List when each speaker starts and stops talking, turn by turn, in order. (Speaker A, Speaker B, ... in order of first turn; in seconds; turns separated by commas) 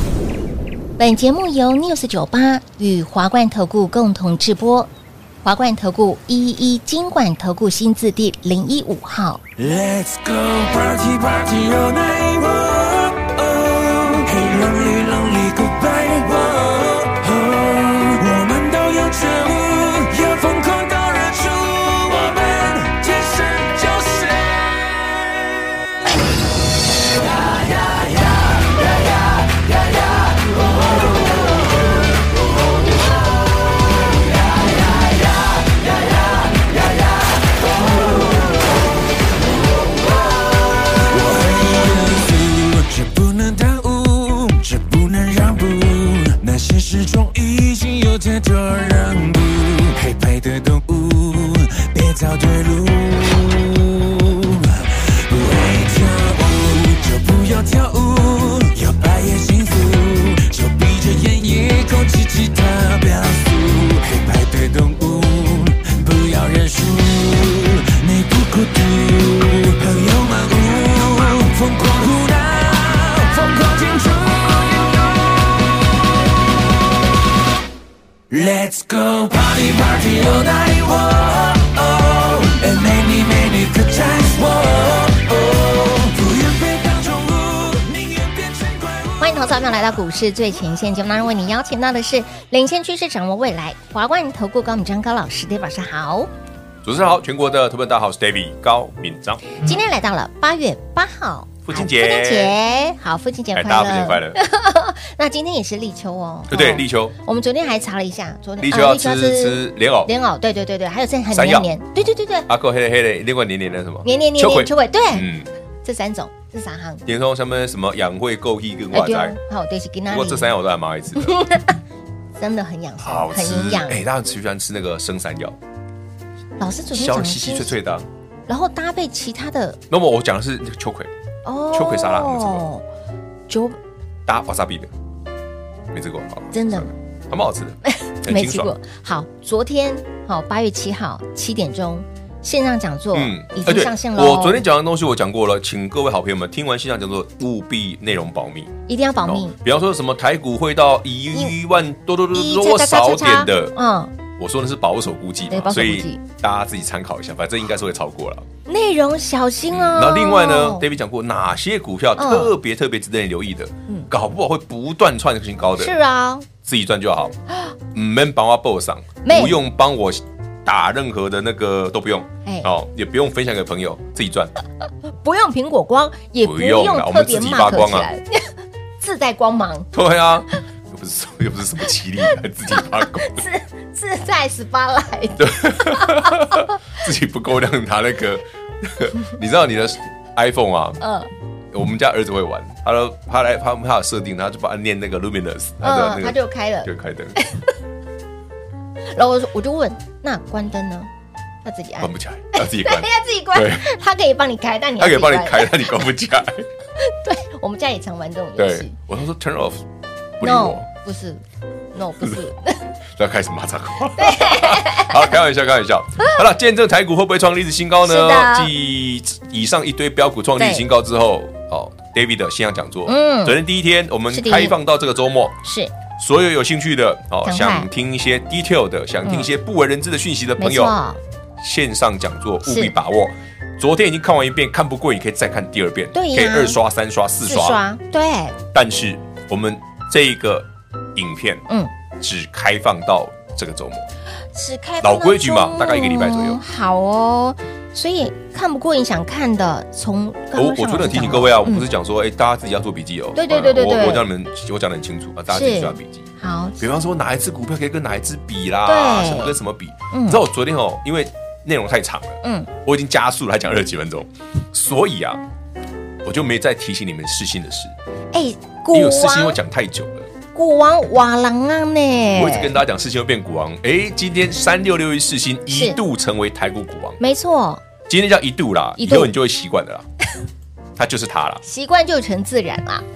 Speaker A: 1.0-4.9, Speaker A: 5.4-9.4, Speaker B: 9.6-26.1, Speaker B: 27.2-28.8, Speaker B: 31.0-31.4, Speaker B: 37.5-38.6, Speaker B: 40.2-77.2, Speaker B: 78.3-89.5, Speaker A: 89.2-96.3, Speaker C: 96.8-99.5, Speaker A: 99.5-112.5, Speaker C: 101.7-102.5, Speaker C: 103.5-104.4, Speaker C: 106.5-107.1, Speaker C: 108.6-110.1, Speaker C: 111.3-111.7, Speaker C: 112.5-115.5, Speaker A: 114.0-115.3, Speaker A: 115.8-117.0, Speaker C: 117.0-119.4, Speaker A: 118.9-120.5, Speaker C: 120.1-121.4, Speaker A: 121.2-121.8, Speaker A: 122.4-124.0, Speaker C: 123.0-125.6, Speaker A: 126.6-127.8, Speaker C: 126.9-128.1, Speaker A: 128.5-129.8, Speaker C: 129.9-131.1, Speaker A: 131.4-132.8, Speaker C: 131.7-132.6, Speaker A: 133.5-133.8, Speaker C: 134.2-134.9, Speaker C: 135.9-138.7, Speaker A: 136.5-136.9, Speaker A: 137.8-144.6, Speaker C: 143.1-153.8, Speaker A: 148.9-149.5, Speaker A: 152.3-154.1, Speaker C: 154.3-158.4, Speaker A: 155.5-156.2, Speaker A: 158.7-160.8, Speaker C: 159.7-165.9, Speaker A: 162.2-162.5, Speaker A: 165.8-166.5, Speaker C: 166.6-167.3, Speaker C: 167.9-174.5, Speaker A: 169.2-169.6, Speaker A: 172.4-172.7, Speaker A: 175.2-179.9, Speaker C: 176.4-178.1, Speaker C: 179.9-183.4, Speaker A: 182.2-186.7, Speaker C: 185.4-191.0, Speaker A: 191.0-191.3, Speaker C: 191.7-197.4, Speaker A: 195.8-197.7, Speaker A: 199.1-201.1, Speaker A: 201.6-205.9, Speaker C: 202.0-203.9, Speaker C: 205.0-206.7, Speaker A: 207.0-208.9, Speaker C: 208.6-209.8, Speaker C: 210.4-210.9, Speaker A: 210.4-212.8, Speaker C: 213.2-225.6, Speaker A: 214.1-215.3, Speaker A: 218.0-218.7, Speaker A: 220.6-220.8, Speaker A: 223.1-223.6, Speaker A: 224.3-224.8, Speaker A: 225.6-225.9, Speaker C: 226.2-231.0, Speaker A: 227.4-227.9, Speaker A: 229.2-229.5, Speaker A: 230.6-231.2, Speaker C: 231.6-237.8, Speaker A: 232.6-232.9, Speaker A: 236.1-236.8, Speaker A: 237.4-238.6, Speaker C: 238.7-241.7, Speaker C: 242.2-244.1, Speaker A: 244.5-251.8, Speaker C: 245.0-246.6, Speaker C: 250.5-256.2, Speaker A: 253.3-254.2, Speaker A: 255.5-256.8, Speaker C: 256.8-265.4, Speaker A: 258.8-259.6, Speaker A: 260.1-260.4, Speaker A: 262.4-262.7, Speaker C: 266.2-267.9, Speaker A: 268.3-269.6, Speaker C: 268.9-270.3, Speaker A: 270.5-272.8, Speaker C: 272.3-277.2, Speaker A: 275.7-276.0, Speaker A: 277.2-277.8, Speaker C: 278.1-280.1, Speaker A: 279.0-279.3, Speaker C: 281.0-281.6, Speaker A: 281.6-283.0